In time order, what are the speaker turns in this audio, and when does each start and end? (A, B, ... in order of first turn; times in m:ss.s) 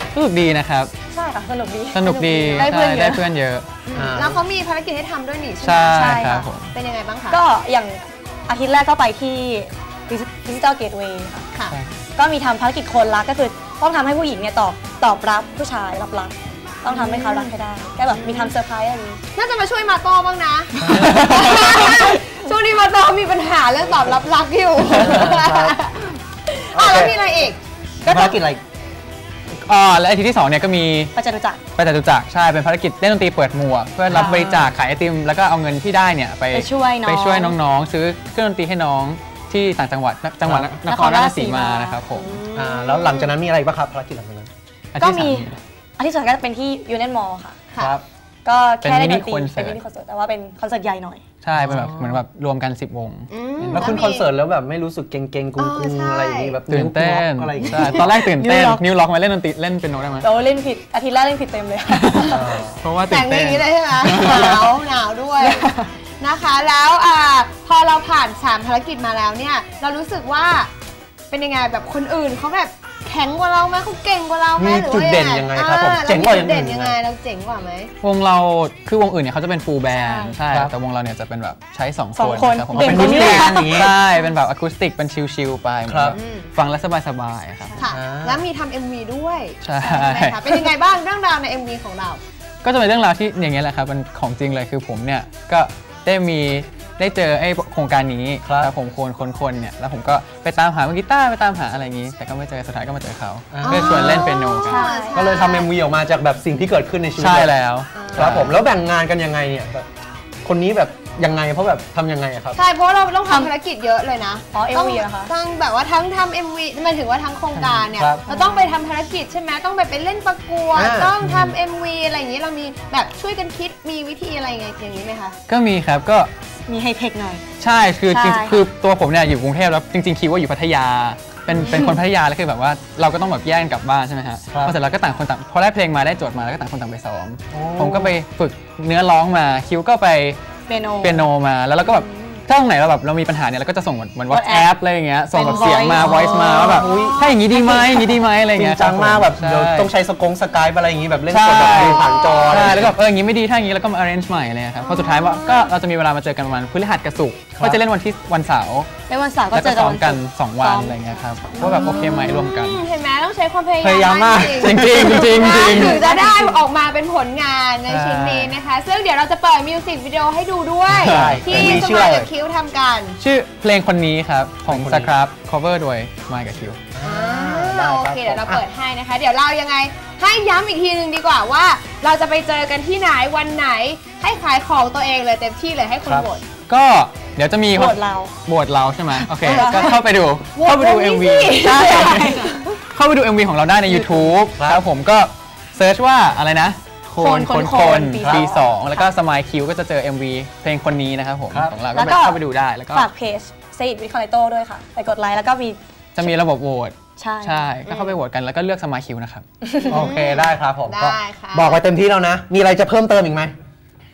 0:00.1-0:00.9 A
0:01.1-0:03.3 B
0:01.9-0:03.7 A
0:03.9-0:06.1 C
0:03.9-0:04.4 D
0:05.6-0:06.7 A
0:05.9-0:06.5 B
0:06.7-0:07.4 C
0:07.3-0:11.4 B
0:12.2-0:19.2 B
0:16.9-0:17.5 C
0:18.1-0:18.5 C
0:19.3-0:27.6 C
0:20.8-0:21.2 D
0:20.9-0:22.0 A
0:24.9-0:25.8 D
0:26.7-0:27.2 D
0:28.0-0:28.6 D
0:28.0-0:28.4 B
0:29.6-0:31.1 A
0:31.1-0:31.6 B
0:31.8-0:42.4 A
0:34.1-0:34.7 D
0:36.5-0:37.6 B
0:40.4-0:40.8 D
0:40.9-0:42.1 B
0:42.2-0:43.4 C
0:42.5-0:44.5 D
0:44.9-0:45.6 A
0:45.0-0:47.6 B
0:47.7-0:48.0 C
0:47.8-0:48.0 D
0:48.4-0:51.2 B
0:48.8-0:49.8 A
0:51.4-0:53.8 A
0:51.6-0:52.2 D
0:53.3-0:54.3 C
0:53.7-0:58.1 D
0:55.6-0:56.6 C
0:56.7-1:00.3 A
0:57.6-0:58.8 B
1:00.2-1:02.3 B
1:01.9-1:04.8 A
1:02.3-1:02.8 D
1:03.0-1:05.7 C
1:05.4-1:05.9 B
1:06.2-1:10.7 C
1:11.3-1:17.9 C
1:14.6-1:17.0 D
1:18.0-1:27.8 A
1:19.9-1:20.3 B
1:20.5-1:20.7 D
1:22.2-1:23.9 B
1:22.7-1:24.0 D
1:25.9-1:26.2 D
1:26.1-1:26.5 C
1:27.8-1:32.2 C
1:27.9-1:28.4 D
1:29.6-1:30.7 A
1:32.6-1:44.9 A
1:38.4-1:38.7 D
1:43.5-1:44.2 D
1:43.6-1:45.7 C
1:44.5-1:45.2 B
1:45.1-1:47.5 D
1:47.2-1:48.6 A
1:47.9-1:48.6 C
1:48.1-1:49.8 D
1:50.4-1:52.6 D
1:52.6-2:05.4 C
1:54.5-1:55.3 B
1:57.9-1:58.2 D
1:58.3-1:58.8 B
2:00.7-2:01.6 D
2:05.5-2:06.3 A
2:06.7-2:07.4 B
2:07.6-2:20.4 A
2:08.1-2:08.6 B
2:11.6-2:12.0 B
2:14.5-2:14.8 D
2:17.5-2:18.2 D
2:20.7-2:21.3 B
2:21.0-2:29.9 A
2:21.9-2:22.4 C
2:24.3-2:24.7 B
2:25.3-2:28.1 B
2:25.5-2:27.4 C
2:26.0-2:28.0 D
2:28.5-2:33.0 D
2:31.3-2:38.9 A
2:31.7-2:32.8 C
2:34.8-2:35.7 C
2:37.6-2:37.8 D
2:39.1-2:41.8 B
2:39.5-2:42.8 A
2:41.6-2:53.2 C
2:43.8-2:45.8 D
2:44.6-2:46.1 A
2:45.6-2:46.6 B
2:47.9-2:48.6 A
2:50.9-2:52.3 D
2:50.9-2:51.9 A
2:53.2-2:56.8 A
2:54.7-2:55.2 D
2:56.9-2:58.6 D
2:57.0-3:06.4 C
3:06.7-3:23.1 A
3:07.7-3:08.3 B
3:09.1-3:10.0 B
3:09.4-3:10.0 C
3:10.6-3:12.7 C
3:11.5-3:12.6 B
3:13.9-3:14.5 B
3:14.6-3:14.8 D
3:17.1-3:17.4 D
3:17.2-3:19.1 B
3:18.2-3:18.5 D
3:21.9-3:22.4 B
3:22.9-3:26.3 B
3:26.2-3:29.4 A
3:27.2-3:27.8 B
3:27.8-3:28.2 C
3:29.6-3:29.9 B
3:29.8-3:31.8 C
3:29.9-3:33.6 D